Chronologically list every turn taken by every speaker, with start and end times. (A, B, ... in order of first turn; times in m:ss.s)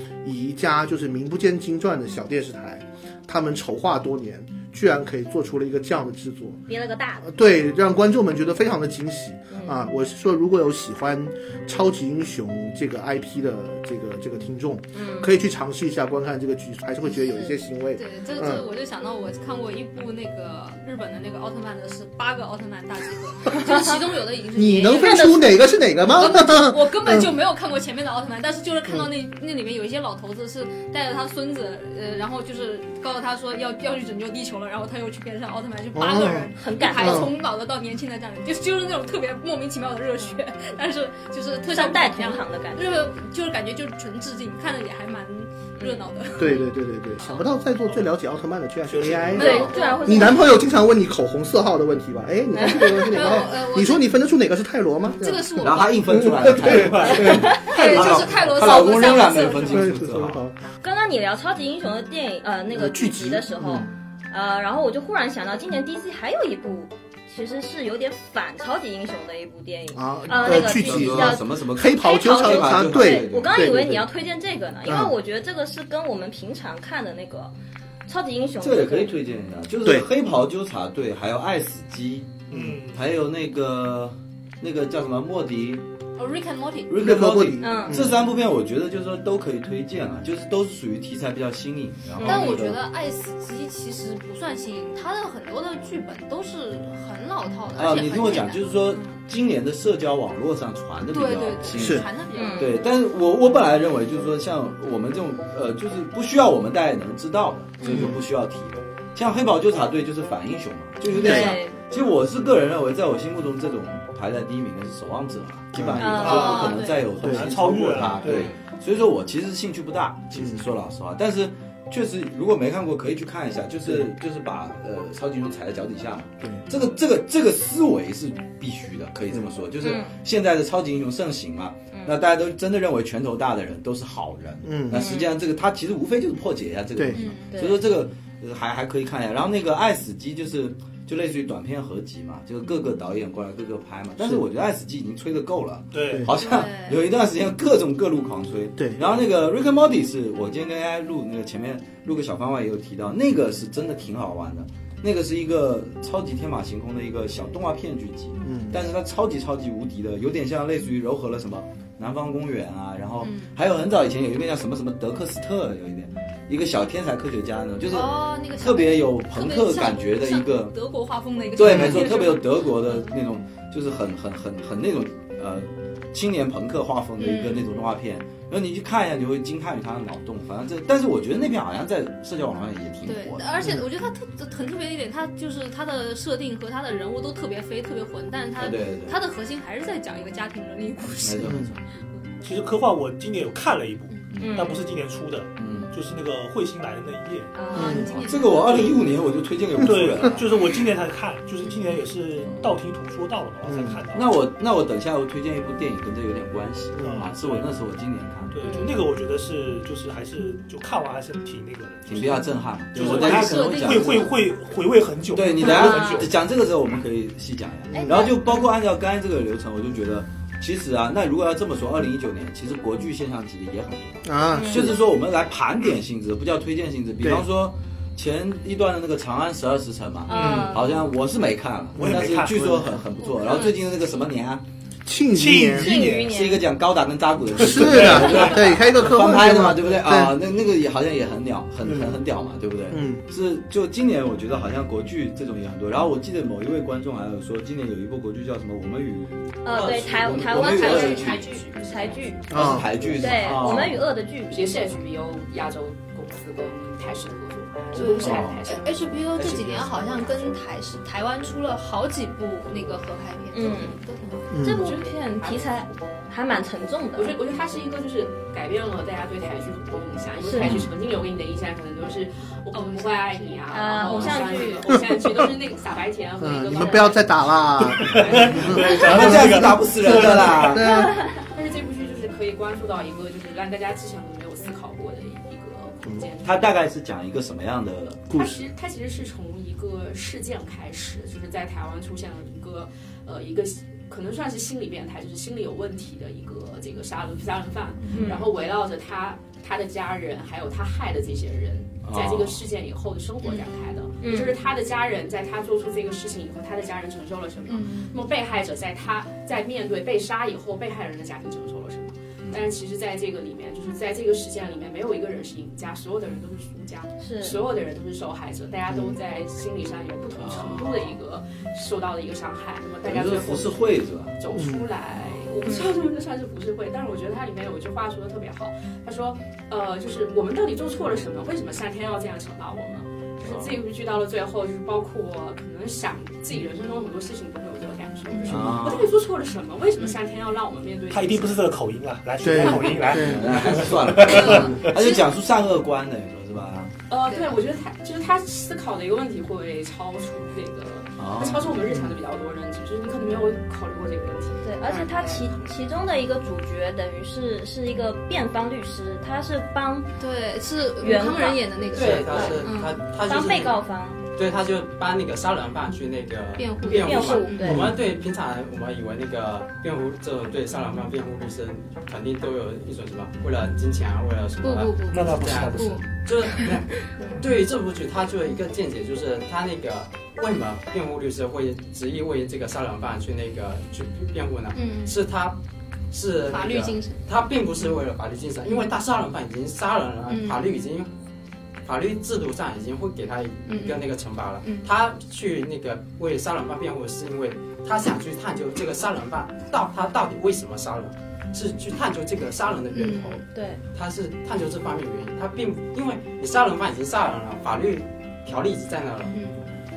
0:00.2-0:06.6 A
0:06.7-0:07.3 B
0:07.2-0:18.6 A
0:09.5-0:09.8 B
0:14.9-0:15.3 B
0:17.1-0:17.5 B
0:18.0-0:46.7 C
0:24.6-0:27.3 A
0:25.0-0:25.5 B
0:35.9-0:37.3 A
0:36.6-0:37.3 B
0:41.7-0:43.1 B
0:45.8-0:46.0 B
0:46.4-0:58.3 A
0:48.9-0:49.6 D
0:49.4-0:50.4 C
0:49.4-0:50.6 B
0:52.6-0:53.4 B
0:53.0-0:54.1 C
0:55.2-0:56.1 C
0:55.6-1:00.4 E
0:57.3-0:57.8 B
0:57.3-0:59.8 C
0:59.7-1:00.6 A
1:00.8-1:17.5 B
1:02.7-1:03.9 A
1:09.9-1:14.0 A
1:10.4-1:14.0 E
1:14.8-1:15.2 A
1:18.1-1:19.1 B
1:18.6-1:25.8 E
1:19.8-1:20.1 A
1:22.5-1:22.8 A
1:22.5-1:23.0 D
1:26.2-1:26.9 C
1:26.9-1:32.8 E
1:26.9-1:28.2 A
1:27.6-1:28.0 B
1:32.2-1:32.5 B
1:32.2-1:38.6 C
1:37.8-1:42.1 E
1:38.9-1:39.2 B
1:41.1-1:42.8 C
1:41.8-1:42.0 A
1:42.3-1:42.8 B
1:42.6-2:50.8 E
1:47.8-1:48.1 B
1:51.2-1:51.6 A
1:51.2-1:51.8 B
1:55.8-1:56.2 A
1:56.0-1:56.9 B
1:56.2-1:56.6 D
1:56.2-1:57.0 C
1:57.2-1:57.5 A
1:57.2-1:58.5 D
2:00.3-2:00.7 A
2:06.4-2:06.7 A
2:09.8-2:10.1 B
2:14.6-2:15.1 A
2:14.9-2:15.3 B
2:17.1-2:17.6 C
2:17.5-2:17.8 B
2:24.2-2:24.4 A
2:25.9-2:26.3 D
2:26.3-2:27.0 C
2:28.8-2:29.0 A
2:38.4-2:38.8 A
2:43.2-2:43.6 C
2:47.9-2:53.2 C
2:51.6-3:03.6 E
2:51.6-2:52.0 A
2:57.2-2:57.7 C
3:03.0-3:12.3 C
3:08.6-3:09.2 E
3:11.2-3:11.8 E
3:11.5-3:11.7 A
3:12.4-3:17.5 D
3:14.3-3:14.7 E
3:14.4-3:14.8 B
3:15.6-3:15.9 E
3:17.6-3:18.2 B
3:17.6-3:19.0 C
3:17.7-3:18.1 A
3:18.0-3:20.5 E
3:19.8-3:24.4 D
3:22.4-3:22.7 E
3:23.7-3:24.0 A
3:24.1-3:28.6 E
3:27.0-3:27.3 A
3:27.0-3:27.7 D
3:28.5-3:36.4 D
3:28.6-3:28.9 B
3:32.1-3:34.3 E
3:33.0-3:34.4 C
3:35.3-3:54.6 E
3:35.7-3:36.2 B
3:37.9-3:38.3 A
3:37.9-3:38.4 B
3:44.2-3:45.0 A
3:44.5-3:44.9 B
3:50.3-3:50.9 B
3:50.4-3:50.8 A
3:52.0-3:52.8 D
3:52.0-3:53.0 A
3:53.4-3:53.7 B
3:55.1-3:55.9 A
3:55.3-3:56.3 D
3:55.8-3:56.6 B
3:55.8-4:11.5 E
3:57.6-4:00.4 A
3:57.8-3:58.6 D
4:01.8-4:02.2 A
4:02.9-4:03.2 A
4:09.6-4:14.7 B
4:09.7-4:10.1 F
4:09.8-4:12.4 C
4:10.9-4:11.9 F
4:12.5-4:12.9 A
4:12.5-4:14.0 E
4:14.5-4:18.8 F
4:17.9-4:24.6 C
4:18.2-4:18.6 E
4:19.4-4:20.5 E
4:23.5-4:24.0 B
4:24.5-4:24.9 A
4:24.6-4:27.4 B
4:24.8-4:25.8 F
4:27.2-4:39.6 F
4:30.4-4:30.8 B
4:30.6-4:30.9 E
4:32.7-4:34.5 C
4:33.7-4:34.8 B
4:36.4-4:39.4 A
4:36.7-4:37.1 B
4:38.0-4:40.7 D
4:38.8-4:40.9 E
4:40.0-4:41.2 A
4:40.9-4:41.3 B
4:41.5-4:46.7 F
4:46.4-4:48.3 E
4:48.3-4:48.6 A
4:48.3-5:41.7 F
4:58.0-4:58.3 E
4:58.1-4:58.5 B
5:02.0-5:02.6 E
5:04.2-5:04.6 B
5:07.7-5:08.2 C
5:17.2-5:17.6 B
5:18.9-5:19.2 A
5:20.4-5:21.2 E
5:23.0-5:24.4 E
5:24.5-5:24.9 A
5:25.6-5:25.9 B
5:33.4-5:33.7 E
5:38.3-5:38.7 C
5:38.5-5:39.1 E
5:41.1-5:44.9 D
5:42.4-5:43.5 A
5:42.6-5:43.2 F
5:43.2-5:46.9 E
5:44.4-5:45.1 C
5:47.1-5:55.7 F
5:51.2-5:51.8 E
5:54.6-6:00.1 B
6:00.2-6:03.0 C
6:01.0-6:04.2 B
6:01.9-6:03.8 G
6:02.0-6:02.4 F
6:04.3-6:25.6 G
6:06.6-6:07.8 C
6:06.9-6:07.9 B
6:07.6-6:07.9 A
6:14.6-6:16.7 C
6:15.1-6:16.1 D
6:24.7-6:25.2 C
6:26.1-6:31.1 G
6:26.4-6:27.2 C
6:30.3-6:30.8 C
6:31.8-6:49.4 G
6:33.7-6:35.0 C
6:42.9-6:43.4 C
6:43.5-6:43.8 B
6:49.3-6:49.6 C